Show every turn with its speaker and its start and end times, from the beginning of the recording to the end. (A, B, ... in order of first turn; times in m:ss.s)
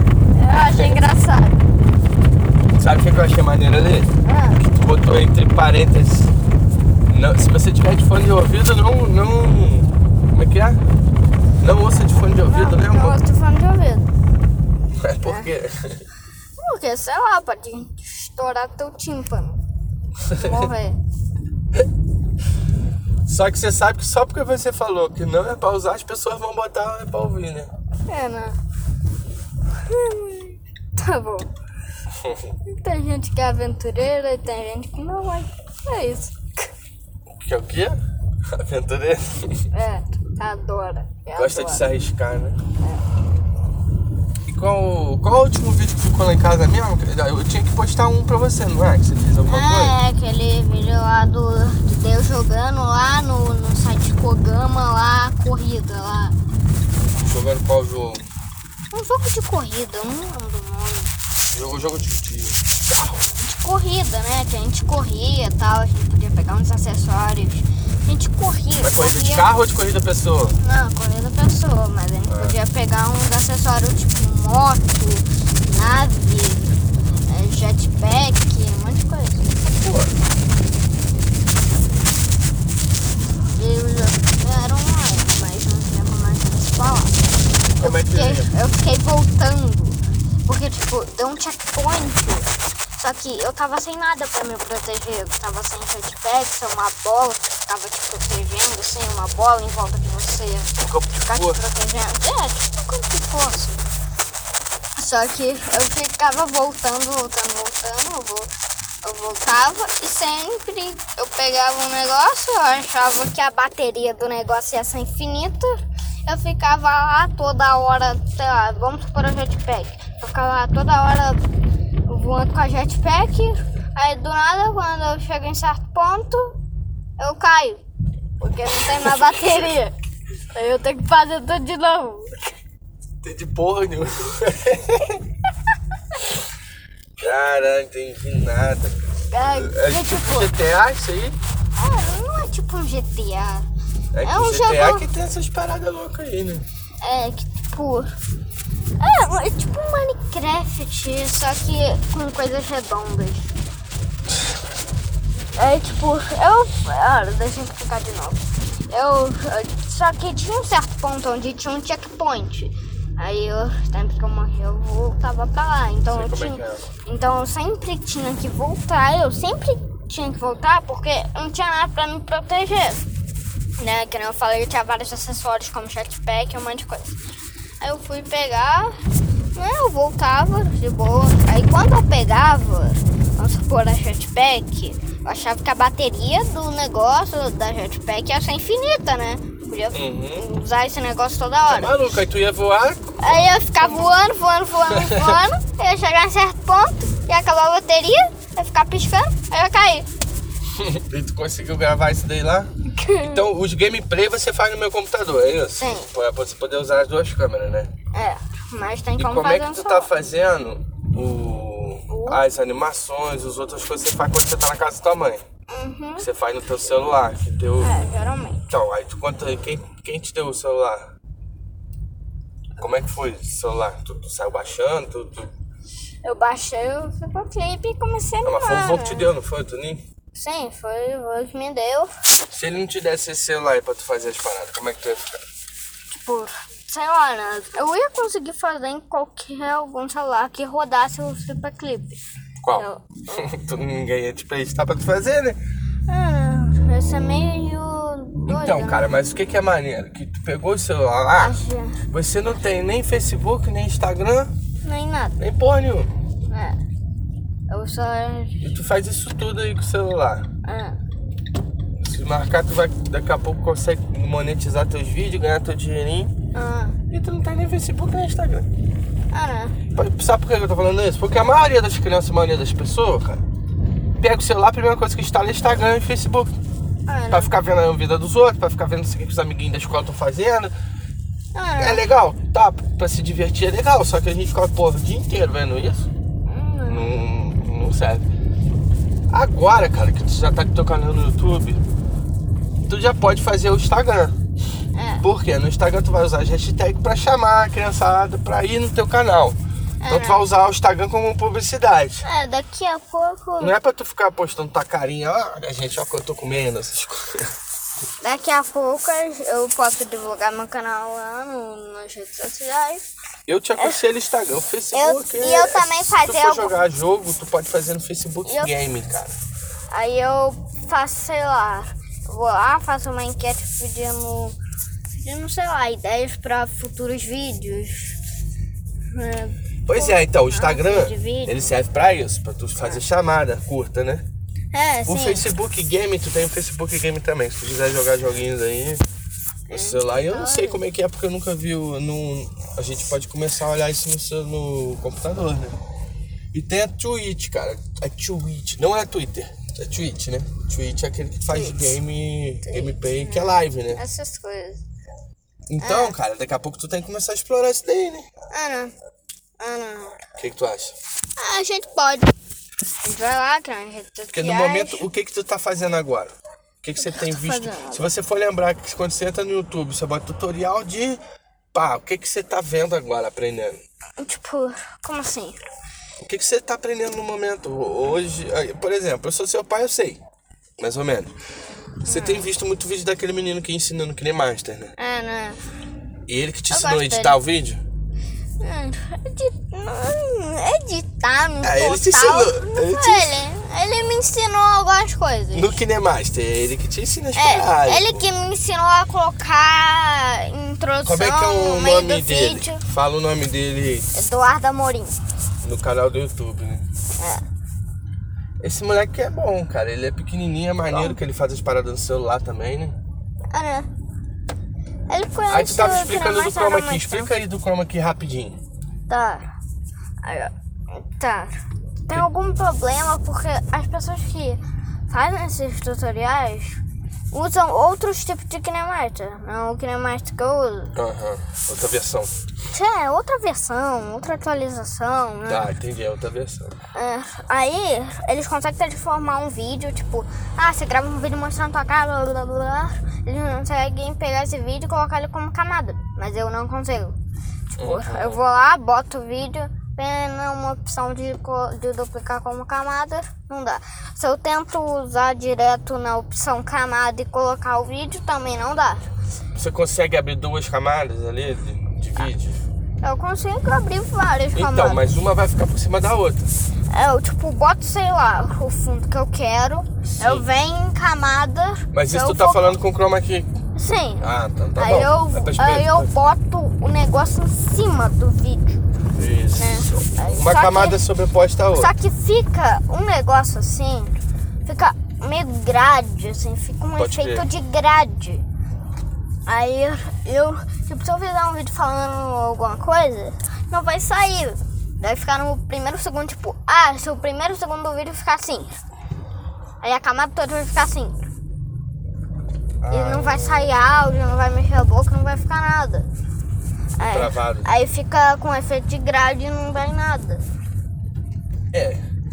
0:00.3-0:01.6 A
0:00.7-0:01.0 B
0:02.8-0:06.3 B
0:04.2-0:04.6 A
0:07.1-0:10.8 B
0:11.6-0:13.2 B
0:12.3-0:14.1 A
0:15.0-0:16.0 B
0:15.2-0:15.5 A
0:16.6-0:19.6 A
0:20.3-0:20.7 B
0:20.3-0:21.0 A
0:23.2-0:27.7 B
0:28.1-0:28.6 A
0:29.8-0:31.5 A
0:32.7-0:36.7 A
0:37.3-0:38.0 B
0:38.5-0:39.6 B
0:39.7-0:41.8 A
0:41.4-0:42.6 B
0:44.4-0:50.0 B
0:49.4-0:56.3 A
0:57.2-0:58.2 B
0:58.9-1:01.1 A
1:01.5-1:03.1 B
1:03.2-1:09.5 A
1:08.8-1:10.6 B
1:10.6-1:19.6 A
1:12.3-1:12.5 B
1:19.6-1:20.1 B
1:23.5-1:43.8 A
1:27.7-1:28.5 B
1:40.8-1:41.6 B
1:45.0-1:48.5 A
1:49.0-2:01.4 A
2:02.1-2:06.6 A
2:07.2-2:07.8 A
2:08.4-2:09.9 A
2:10.5-2:12.4 A
2:13.2-2:15.2 B
2:17.2-2:21.4 B
2:19.3-2:20.5 A
2:21.8-2:23.6 A
2:24.1-2:26.6 B
2:24.2-2:25.1 A
2:27.0-2:28.1 A
2:29.0-2:33.5 A
2:35.6-2:53.0 A
2:46.1-2:46.9 B
2:53.8-2:57.2 A
2:57.8-2:58.9 A
2:59.5-3:12.0 A
3:09.9-3:10.5 B
3:11.7-3:13.5 B
3:13.2-3:20.1 A
3:14.9-3:15.4 B
3:20.7-3:27.9 B
3:22.9-3:23.4 A
3:25.8-3:26.1 A
3:28.1-3:30.1 A
3:29.2-3:35.4 B
3:32.1-3:32.4 A
3:35.7-3:36.3 A
3:36.2-3:38.0 B
3:37.8-3:38.7 A
3:38.7-3:41.1 B
3:42.8-3:45.5 B
3:46.2-3:49.3 A
3:48.4-3:50.0 B
3:50.3-3:52.1 A
3:52.5-3:55.4 B
3:56.1-4:02.2 A
4:02.6-4:05.6 B
4:02.7-4:03.5 A
4:06.1-4:09.2 A
4:08.5-4:11.6 B
4:11.3-4:12.0 A
4:12.1-4:14.5 B
4:14.8-4:15.4 A
4:15.4-4:16.1 B
4:16.5-4:16.8 A
4:17.7-4:18.6 A
4:18.6-4:20.5 B
4:20.6-4:21.0 A
4:22.0-4:26.3 B
4:26.5-4:27.0 A
4:27.1-4:28.7 B
4:29.3-4:29.8 A
4:29.9-4:33.4 B
4:34.2-4:36.5 B
4:37.1-4:37.5 A
4:37.3-4:40.7 B
4:41.5-4:42.0 A
4:41.8-4:46.1 B
4:46.4-4:47.2 A
4:46.9-4:48.2 B
4:49.3-4:51.8 B
4:52.8-4:54.3 B
4:54.9-4:55.2 A
4:55.2-5:02.2 B
5:00.0-5:00.4 A
5:02.2-5:03.7 A
5:03.6-5:07.5 B
5:08.2-5:13.0 A
5:13.5-5:19.4 B
5:14.9-5:16.7 A
5:18.4-5:18.7 A
5:19.9-5:24.6 A
5:25.1-5:28.2 A
5:29.1-5:31.7 A
5:29.8-5:34.2 B
5:34.7-5:35.5 A
5:35.0-5:39.0 B
5:39.7-5:40.8 A
5:39.7-5:45.8 B
5:46.5-5:54.0 B
5:51.5-5:51.9 A
5:52.6-5:54.8 A
5:55.7-5:58.3 B
5:55.8-5:56.1 A
5:58.5-5:58.9 A
5:59.6-6:00.2 A
6:00.4-6:00.9 B
6:01.4-6:02.3 A
6:03.0-6:05.0 A
6:04.3-6:11.2 B
6:07.0-6:08.1 A
6:11.7-6:13.8 B
6:14.2-6:15.6 A
6:16.2-6:20.2 B
6:20.8-6:21.3 B
6:22.0-6:22.5 A
6:22.0-6:24.9 B
6:25.0-6:25.6 A
6:26.3-6:27.8 B
6:26.7-6:27.4 A
6:28.6-6:35.8 A
6:31.6-6:33.4 B
6:35.5-6:38.3 B
6:37.4-6:42.8 A
6:41.0-6:44.1 B
6:44.1-6:45.2 A
6:45.6-6:46.8 B
6:47.2-6:47.4 A
6:48.6-6:53.0 B
6:50.9-6:51.2 A
6:53.5-6:53.9 A
6:55.1-6:57.3 A
6:55.5-6:58.6 B
6:59.1-6:59.5 A
7:00.2-7:01.5 A
7:02.0-7:10.9 A
7:10.9-7:12.3 B
7:12.7-7:15.6 A
7:15.4-7:16.8 B
7:16.9-7:27.1 A
7:27.7-7:39.1 A
7:27.8-7:28.4 B
7:39.5-7:42.6 B
7:43.0-7:45.0 A
7:44.5-7:46.5 B
7:46.9-7:52.8 A
7:50.0-7:50.4 B
7:51.9-7:53.5 B
7:53.7-7:54.2 A
7:54.2-7:56.1 B
7:54.8-7:58.8 A
7:59.2-8:01.9 B
7:59.6-8:01.0 A
8:01.8-8:08.4 A
8:07.0-8:07.5 B
8:09.4-8:18.7 A
8:19.8-8:21.2 A
8:22.8-8:23.8 B
8:22.9-8:26.1 A
8:27.0-8:30.4 A
8:27.0-8:27.7 B
8:31.7-8:32.0 B